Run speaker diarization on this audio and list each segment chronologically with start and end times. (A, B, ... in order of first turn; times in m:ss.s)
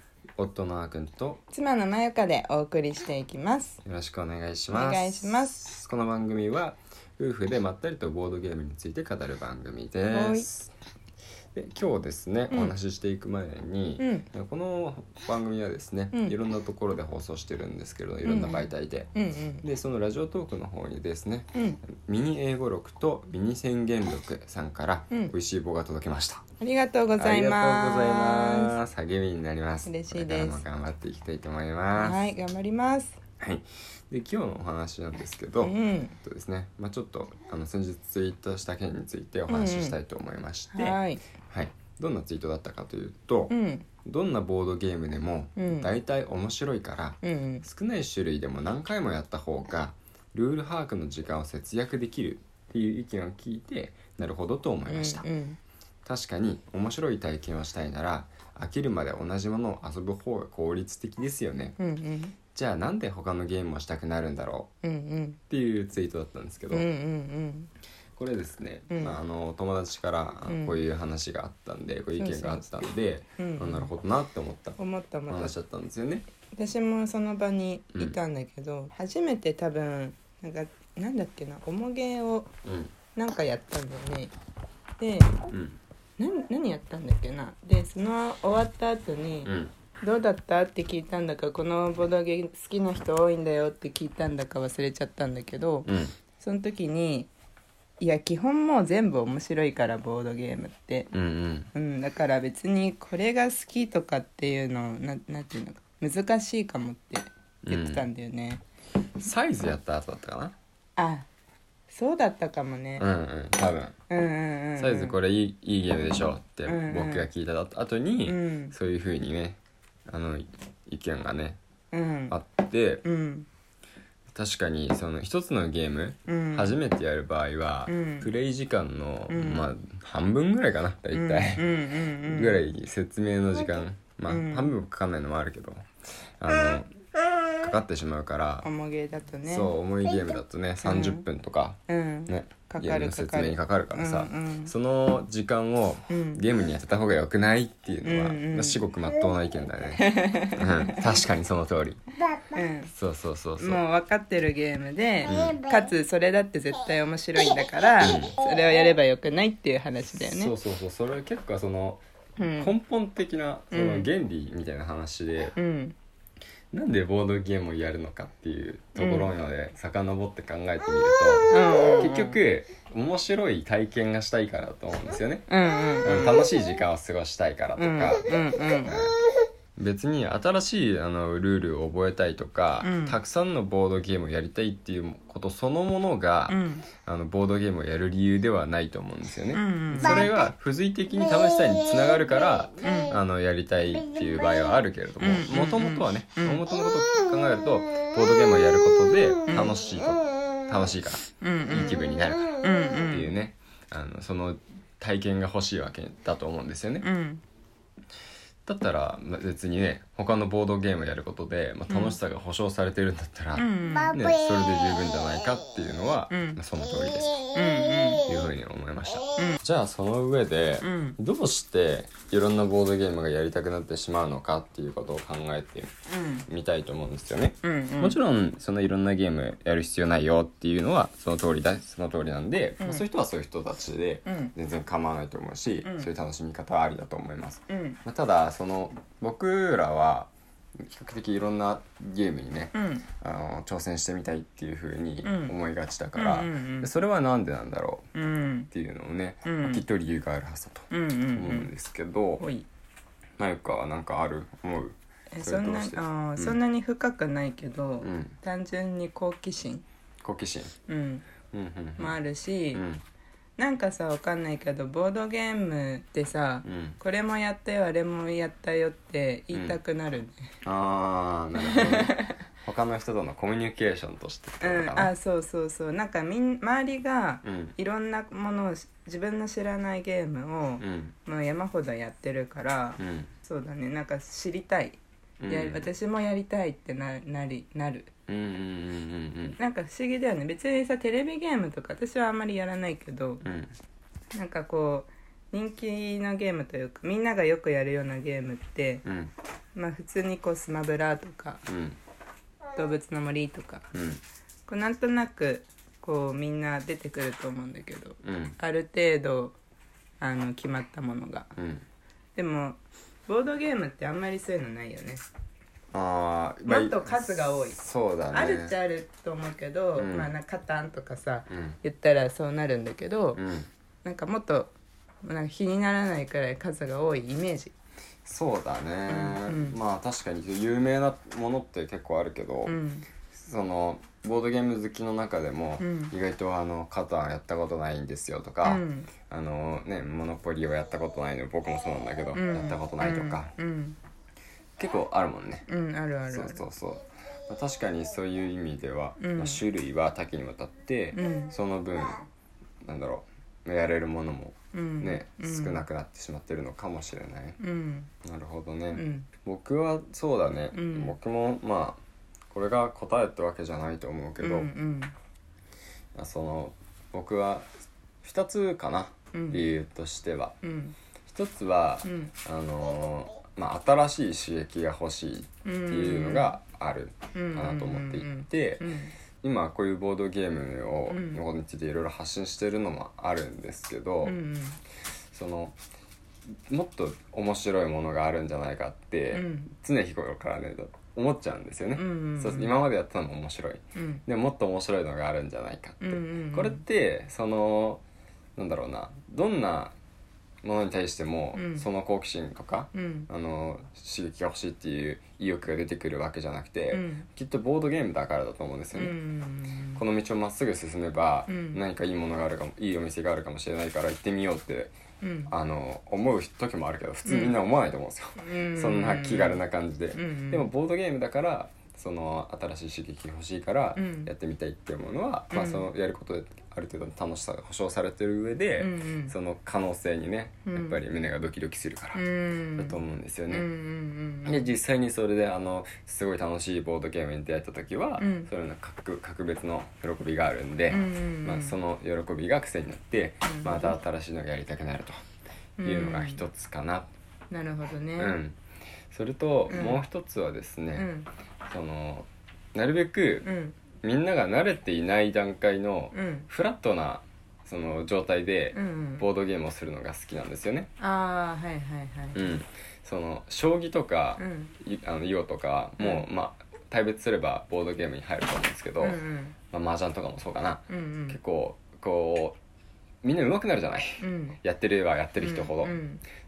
0:00.4-0:01.4 A
0:01.5-0:03.8 B
0:03.8-0:10.7 A
0:04.7-0:05.6 B
0:10.1-0:10.4 B
0:11.5-0:26.4 A
0:14.0-0:14.3 B
0:18.2-0:19.6 B
0:21.5-0:21.8 B
0:26.6-0:28.8 B
0:27.2-0:32.2 A
0:29.8-0:30.6 B
0:32.0-0:33.2 B
0:33.4-0:43.5 A
0:35.6-0:36.1 B
0:39.5-0:40.0 B
0:40.7-0:41.2 B
0:43.5-0:43.8 B
0:44.0-0:55.3 A
0:45.6-0:45.9 B
0:47.2-0:47.6 B
0:54.9-0:55.6 B
0:56.0-1:01.8 A
1:01.8-1:02.3 B
1:02.5-1:04.7 A
1:04.8-1:05.4 B
1:05.5-1:06.8 A
1:06.7-1:07.7 B
1:08.2-1:16.2 A
1:08.9-1:09.2 B
1:10.5-1:10.8 B
1:12.2-1:12.6 B
1:13.4-1:13.9 B
1:14.8-1:15.5 B
1:16.5-1:22.5 B
1:22.6-1:22.9 A
1:23.1-1:24.3 B
1:25.0-1:25.4 B
1:25.5-1:25.8 A
1:26.2-1:37.3 B
1:29.4-1:29.7 A
1:35.8-1:36.1 A
1:38.0-1:41.1 B
1:41.1-1:41.7 A
1:41.7-1:48.6 B
1:47.6-1:48.1 A
1:49.2-1:50.5 A
1:51.0-1:51.3 B
1:51.9-1:53.0 B
1:53.0-1:53.9 A
1:54.1-1:55.2 B
1:54.8-2:01.6 A
1:56.6-1:57.3 B
1:58.2-1:58.7 B
2:01.9-2:02.3 B
2:02.3-2:03.0 A
2:03.0-2:03.5 B
2:04.3-2:15.9 A
2:06.3-2:06.8 B
2:07.9-2:08.3 B
2:09.3-2:09.7 B
2:11.1-2:12.6 B
2:14.3-2:14.7 B
2:16.4-2:16.9 A
2:17.5-2:18.7 A
2:18.6-2:19.7 B
2:19.4-2:32.0 A
2:20.8-2:21.2 B
2:21.9-2:24.7 B
2:26.1-2:26.4 B
2:28.0-2:28.8 B
2:30.0-2:31.1 B
2:32.5-2:32.9 B
2:32.9-2:33.8 A
2:33.6-2:40.5 B
2:35.3-2:35.6 A
2:38.0-2:38.3 A
2:40.0-2:42.0 A
2:42.4-2:42.7 B
2:42.6-2:45.6 A
2:43.7-2:44.1 B
2:45.5-2:45.9 B
2:46.7-2:55.4 A
2:49.0-2:49.3 B
2:51.5-2:52.4 B
2:55.5-2:56.5 B
2:56.0-2:59.1 A
2:57.8-2:59.0 B
2:59.8-3:27.1 A
3:02.8-3:03.2 B
3:06.5-3:06.9 B
3:09.5-3:10.3 B
3:12.8-3:13.2 B
3:15.2-3:16.6 B
3:19.5-3:19.8 B
3:21.4-3:22.0 B
3:22.6-3:23.3 B
3:27.0-3:27.4 B
3:28.6-3:37.3 A
3:31.9-3:32.2 B
3:33.6-3:34.3 B
3:36.3-3:36.6 B
3:37.5-3:38.3 B
3:38.2-3:45.9 A
3:40.8-3:41.2 B
3:46.1-3:46.4 B
3:46.5-4:08.0 A
3:47.6-3:48.2 B
3:54.2-3:54.5 B
3:55.8-3:56.1 B
3:57.7-3:58.0 B
4:02.7-4:03.0 B
4:05.2-4:05.5 B
4:06.2-4:06.9 B
4:08.1-4:08.7 B
4:08.7-4:12.4 A
4:09.4-4:09.8 B
4:10.9-4:11.7 B
4:12.4-4:12.6 B
4:13.4-4:16.6 A
4:15.3-4:19.8 B
4:18.0-4:18.4 A
4:20.2-4:20.7 A
4:20.9-4:21.3 B
4:21.5-4:22.2 A
4:22.0-4:22.8 B
4:22.7-4:23.0 A
4:23.6-4:30.4 B
4:26.6-4:27.0 A
4:29.5-4:29.8 A
4:30.6-4:35.1 A
4:31.6-4:32.4 B
4:34.6-4:48.1 B
4:37.4-4:37.8 A
4:40.8-4:41.1 A
4:43.0-4:43.3 A
4:45.4-4:45.9 A
4:48.3-4:49.6 A
4:49.5-4:53.4 B
4:53.4-4:53.7 A
4:54.3-4:59.0 B
4:59.0-4:59.3 A
4:59.7-5:01.6 B
5:01.7-5:02.0 A
5:02.8-5:03.8 B
5:03.9-5:04.2 A
5:04.7-5:09.6 B
5:08.2-5:08.6 A
5:10.2-5:11.5 B
5:11.6-5:11.8 A
5:12.4-5:15.2 B
5:15.9-5:18.7 A
5:16.6-5:17.8 B
5:18.3-5:23.4 B
5:20.0-5:20.3 A
5:21.5-5:21.8 A
5:23.3-5:23.7 A
5:24.0-5:27.7 B
5:28.2-5:32.8 A
5:29.1-5:29.8 B
5:32.6-5:33.1 B
5:33.3-5:43.5 A
5:35.8-5:36.1 B
5:38.6-5:39.1 B
5:42.3-5:44.0 B
5:44.8-5:45.7 A
5:45.7-5:46.6 B
5:46.3-5:52.2 A
5:49.2-5:49.6 B
5:51.1-5:51.5 B
5:52.8-5:57.6 A
5:54.7-5:55.8 B
5:57.6-5:58.1 B
5:58.2-6:04.7 A
5:58.9-5:59.3 B
6:00.7-6:01.1 B
6:04.4-6:05.1 B
6:06.1-6:07.7 A
6:08.2-6:10.6 A
6:09.3-6:09.7 B
6:10.6-6:11.0 B
6:11.2-6:18.8 A
6:12.0-6:12.3 B
6:15.6-6:16.6 B
6:17.3-6:19.1 B
6:19.4-6:24.4 A
6:21.1-6:21.4 B
6:24.2-6:24.8 B
6:25.3-6:25.8 A
6:26.7-6:38.0 A
6:29.3-6:29.7 B
6:31.9-6:32.8 B
6:33.9-6:34.2 B
6:36.0-6:36.8 B
6:38.6-6:39.9 A
6:40.6-6:49.2 A
6:41.5-6:41.8 B
6:42.9-6:43.3 B
6:46.9-6:47.2 B
6:48.9-6:50.0 B
6:49.9-6:54.9 A
6:51.5-6:51.8 B
6:55.2-6:55.5 B
6:55.5-7:12.2 A
6:57.2-6:57.6 B
6:58.4-6:59.6 B
7:00.1-7:00.7 B
7:04.0-7:04.3 B
7:05.5-7:05.9 B
7:08.8-7:09.3 B
7:10.6-7:11.0 B
7:12.1-7:13.0 B
7:12.8-7:13.7 A
7:13.5-7:14.7 B
7:14.4-7:25.2 A
7:18.2-7:18.5 B
7:20.9-7:21.8 B
7:23.4-7:24.0 B
7:25.8-7:26.4 B
7:25.8-7:27.1 A
7:27.5-7:28.4 B
7:28.2-7:28.6 A
7:29.1-7:31.1 A
7:29.7-7:30.0 B
7:31.0-7:31.3 B
7:31.7-7:33.5 A
7:33.4-7:33.8 B
7:34.0-7:40.9 A
7:36.1-7:36.5 B
7:38.7-7:39.2 B
7:41.0-7:42.6 B
7:42.3-7:49.2 A
7:44.4-7:44.7 B
7:46.0-7:46.2 B
7:49.0-7:49.6 B
7:49.7-7:52.6 A
7:50.9-7:51.4 B
7:53.2-7:56.0 A
7:54.2-7:54.6 B
7:55.4-7:56.2 B